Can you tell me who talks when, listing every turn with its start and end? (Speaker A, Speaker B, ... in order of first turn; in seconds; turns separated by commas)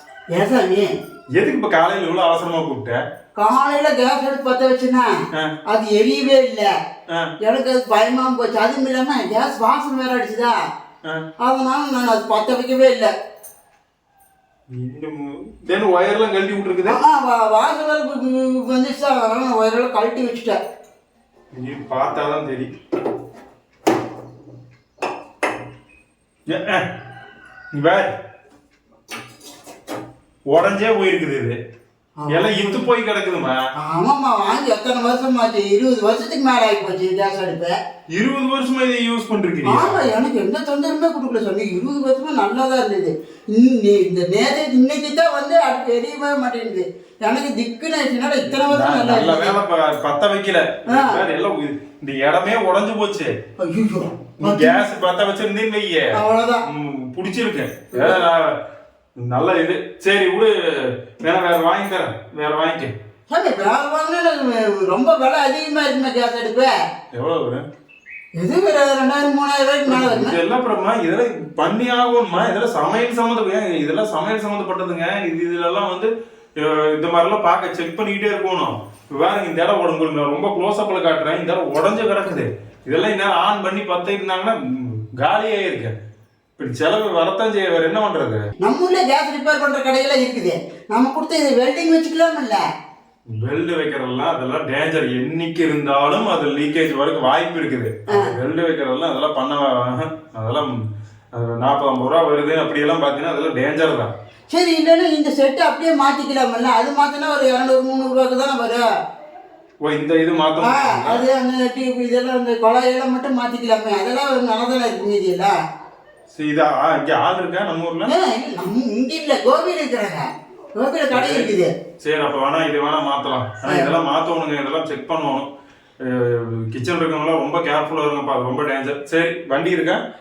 Speaker A: 0.3-0.9, Speaker B: 1.3-3.0, Speaker A: 3.4-5.1, Speaker A: 5.7-6.7, Speaker A: 7.4-10.6, Speaker A: 11.4-13.1, Speaker B: 14.7-17.0, Speaker A: 16.8-20.6, Speaker B: 21.5-22.7, Speaker B: 26.5-26.9, Speaker B: 27.7-28.1, Speaker B: 30.5-31.6, Speaker A: 32.2-32.9, Speaker B: 32.3-33.6, Speaker A: 33.8-37.8, Speaker B: 38.1-40.1, Speaker A: 39.6-49.5, Speaker B: 48.6-53.3, Speaker A: 50.9-51.2, Speaker A: 53.6-54.8, Speaker B: 54.4-56.1, Speaker A: 56.1-56.6, Speaker B: 56.7-58.5, Speaker A: 57.9-58.2, Speaker B: 59.2-60.5, Speaker B: 61.2-62.9, Speaker A: 63.3-66.7, Speaker B: 67.1-67.6, Speaker A: 68.4-70.4, Speaker B: 69.9-84.6, Speaker B: 85.2-85.9, Speaker B: 86.6-88.4, Speaker A: 88.6-92.6, Speaker B: 93.3-100.7, Speaker B: 101.3-104.1, Speaker A: 104.5-108.8, Speaker B: 109.8-111.2, Speaker A: 110.6-115.5, Speaker B: 116.3-118.1, Speaker A: 118.1-120.2, Speaker A: 120.8-121.7, Speaker B: 121.1-125.5, Speaker A: 123.6-123.9, Speaker B: 126.0-130.0